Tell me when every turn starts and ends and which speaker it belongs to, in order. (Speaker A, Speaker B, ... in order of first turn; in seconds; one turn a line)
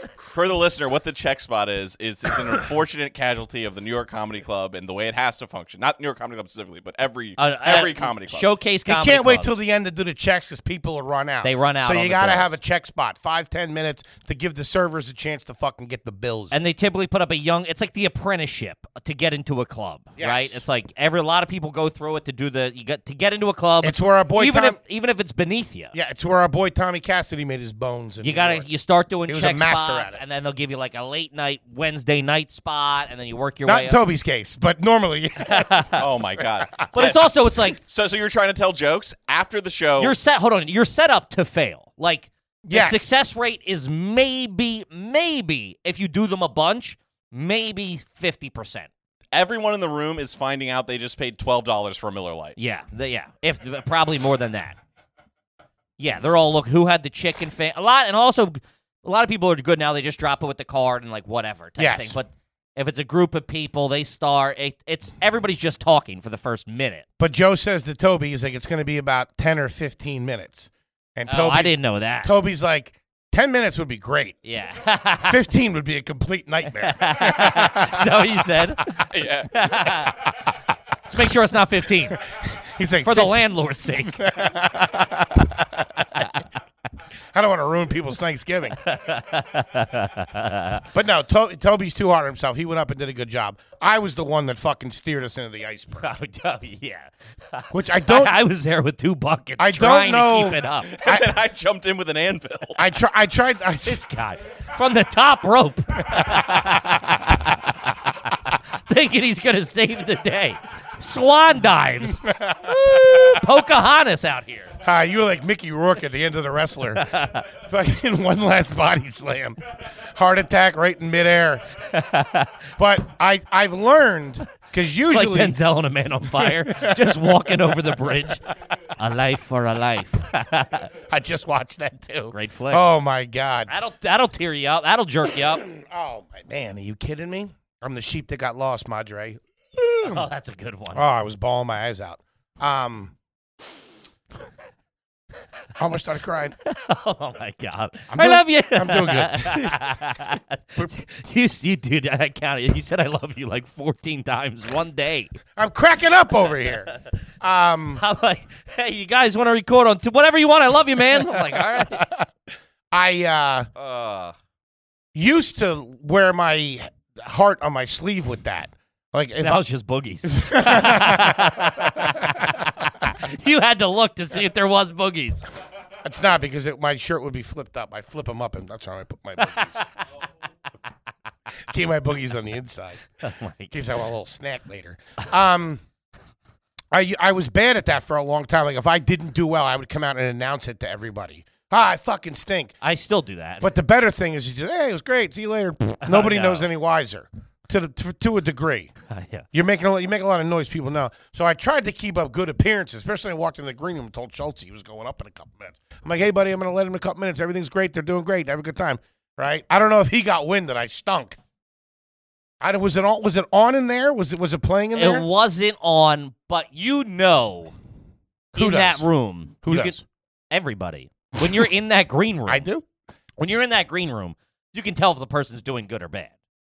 Speaker A: 0.2-8.5
Speaker B: 7.4-9.6
Speaker C: 8.9-16.5
Speaker B: 11.4-12.6
Speaker B: 16.5-25.9
Speaker C: 20.2-20.6
Speaker C: 23.8-24.8
Speaker C: 25.9-28.7
Speaker B: 28.2-34.0
Speaker C: 29.3-30.2
Speaker C: 33.6-37.0
Speaker B: 35.5-36.0
Speaker A: 36.0-40.2
Speaker B: 36.9-37.8
Speaker B: 40.0-48.9
Speaker C: 42.6-43.1
Speaker A: 49.3-52.5
Speaker B: 52.6-54.8
Speaker B: 56.0-67.0
Speaker C: 61.8-62.2
Speaker C: 67.2-74.4
Speaker B: 71.3-72.3
Speaker B: 74.4-75.4
Speaker C: 75.2-78.3
Speaker B: 76.7-80.3
Speaker A: 79.1-79.7
Speaker B: 81.1-82.2
Speaker C: 82.3-85.6
Speaker B: 83.0-84.4
Speaker B: 85.8-86.4
Speaker C: 87.3-88.8
Speaker B: 88.8-90.8
Speaker C: 90.9-96.1
Speaker B: 96.0-100.9
Speaker C: 97.7-98.4
Speaker C: 99.6-101.3
Speaker A: 100.9-102.8
Speaker C: 102.8-104.0
Speaker B: 103.8-114.7
Speaker C: 112.0-113.5
Speaker C: 114.8-121.7
Speaker B: 117.0-117.5
Speaker B: 121.9-122.6
Speaker C: 122.8-125.6
Speaker B: 125.1-128.4
Speaker C: 126.4-128.1
Speaker B: 129.0-130.9
Speaker C: 131.0-133.7
Speaker B: 132.3-132.8
Speaker B: 133.7-135.6
Speaker C: 135.4-140.2
Speaker B: 140.0-141.0
Speaker C: 140.9-143.1
Speaker C: 145.8-146.5
Speaker B: 146.7-155.3
Speaker C: 148.1-149.8
Speaker C: 155.6-158.0
Speaker B: 158.0-162.1
Speaker C: 161.4-162.0
Speaker C: 162.9-163.7
Speaker A: 163.8-164.3
Speaker C: 165.2-169.6
Speaker B: 169.4-175.5
Speaker C: 170.3-172.1
Speaker C: 176.0-179.8
Speaker B: 179.4-179.9
Speaker C: 181.7-183.0
Speaker B: 183.2-183.7
Speaker C: 183.7-185.8
Speaker C: 186.9-192.8
Speaker B: 192.8-193.7
Speaker C: 193.6-198.9
Speaker B: 196.0-196.7
Speaker B: 199.1-199.5
Speaker C: 199.5-211.4
Speaker C: 212.6-215.2
Speaker B: 214.9-217.7
Speaker C: 218.5-219.1
Speaker B: 218.6-220.0
Speaker C: 219.6-220.1
Speaker B: 220.5-222.7
Speaker C: 221.4-221.7
Speaker C: 222.5-222.8
Speaker B: 223.4-226.3